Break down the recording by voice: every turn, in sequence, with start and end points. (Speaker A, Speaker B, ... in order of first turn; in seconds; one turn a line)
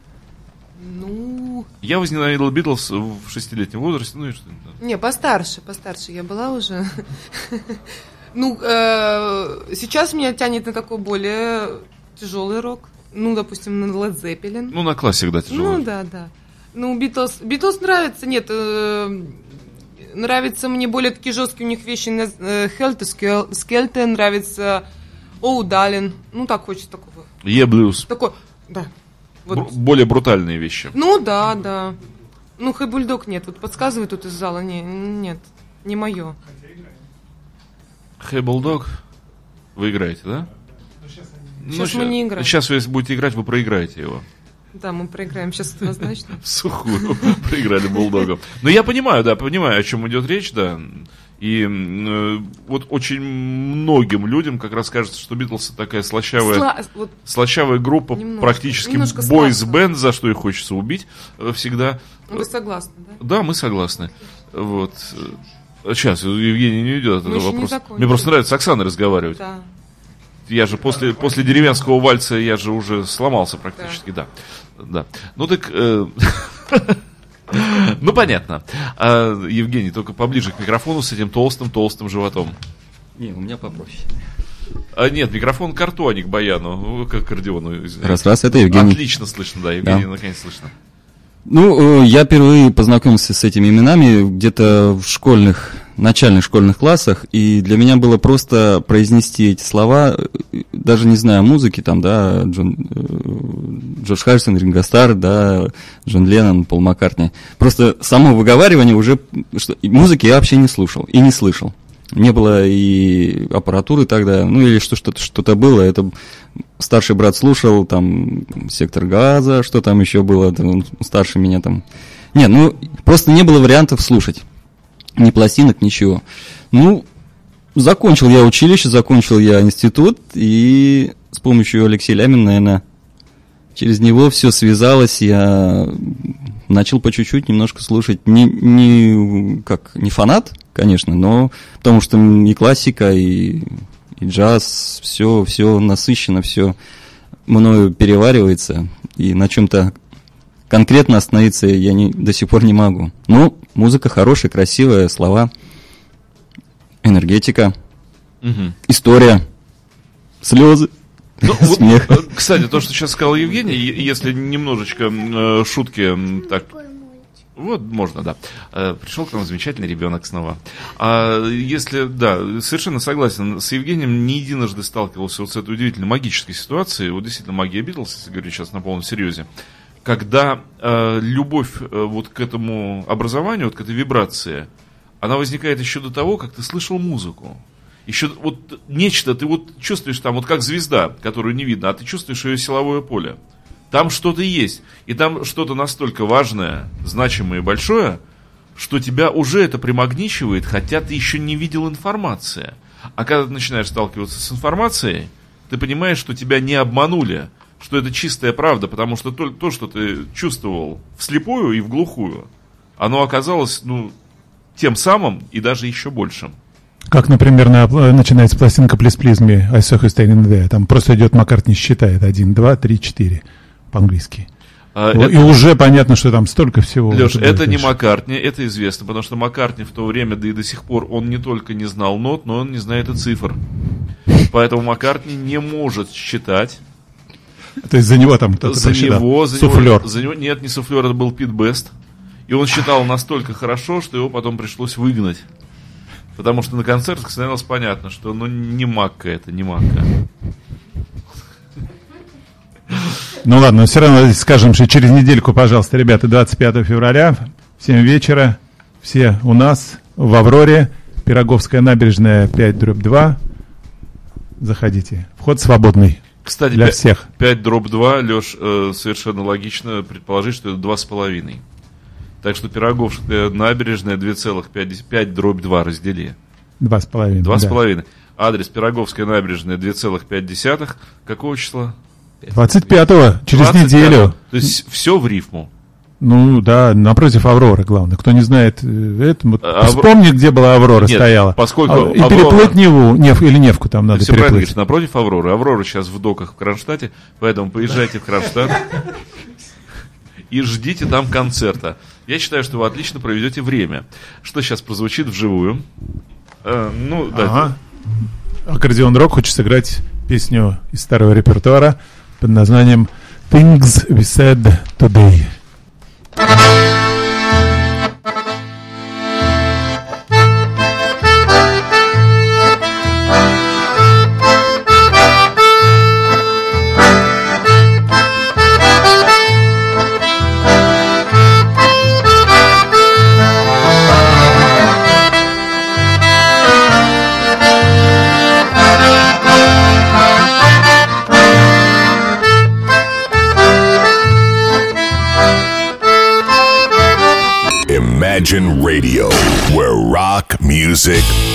Speaker A: 0.8-1.7
Speaker B: 1.8-4.8
Speaker A: 4.8-7.8
Speaker A: 8.3-14.8
Speaker B: 14.7-15.8
Speaker A: 15.5-19.4
Speaker A: 20.1-24.9
Speaker A: 25.4-27.3
Speaker B: 27.4-28.1
Speaker A: 28.1-28.9
Speaker A: 29.5-29.7
Speaker B: 29.5-30.9
Speaker A: 30.9-32.0
Speaker A: 32.6-36.4
Speaker B: 38.2-39.0
Speaker B: 39.8-40.5
Speaker B: 41.6-44.3
Speaker A: 41.7-42.5
Speaker A: 44.7-46.4
Speaker B: 46.4-56.7
Speaker A: 46.9-47.3
Speaker A: 56.4-57.1
Speaker B: 57.2-62.5
Speaker A: 58.1-59.9
Speaker A: 62.3-63.2
Speaker B: 63.2-69.4
Speaker A: 67.2-68.3
Speaker A: 69.3-69.7
Speaker B: 70.5-77.0
Speaker B: 77.5-82.6
Speaker C: 83.2-84.1
Speaker B: 85.0-90.7
Speaker C: 88.0-89.0
Speaker C: 91.5-116.1
Speaker C: 116.8-121.8
Speaker C: 122.3-124.4
Speaker C: 125.2-127.1
Speaker C: 127.8-132.8
Speaker C: 133.8-146.8
Speaker C: 147.5-149.9
Speaker C: 150.7-155.5
Speaker C: 157.0-157.8
Speaker B: 158.4-158.8
Speaker C: 158.9-159.4
Speaker C: 160.4-160.9
Speaker C: 161.4-162.3
Speaker B: 161.4-167.0
Speaker B: 167.6-179.5
Speaker B: 180.0-184.7
Speaker B: 185.2-193.4
Speaker B: 193.9-198.2
Speaker B: 198.8-214.1
Speaker B: 214.8-216.6
Speaker D: 217.1-224.5
Speaker B: 224.9-225.6
Speaker D: 225.1-227.9
Speaker B: 227.1-233.6
Speaker B: 234.4-236.8
Speaker D: 237.8-240.1
Speaker B: 238.6-241.9
Speaker B: 242.5-245.5
Speaker B: 246.4-250.1
Speaker D: 253.4-263.4
Speaker D: 264.6-267.3
Speaker B: 266.4-271.6
Speaker B: 272.4-276.4
Speaker D: 276.8-277.8
Speaker B: 277.4-285.7
Speaker D: 282.5-284.4
Speaker D: 286.2-294.7
Speaker B: 289.6-290.1
Speaker B: 291.0-292.8
Speaker B: 294.1-299.0
Speaker B: 300.5-305.8
Speaker B: 306.6-307.8
Speaker D: 307.3-307.8
Speaker D: 308.6-315.6
Speaker E: 347.9-351.3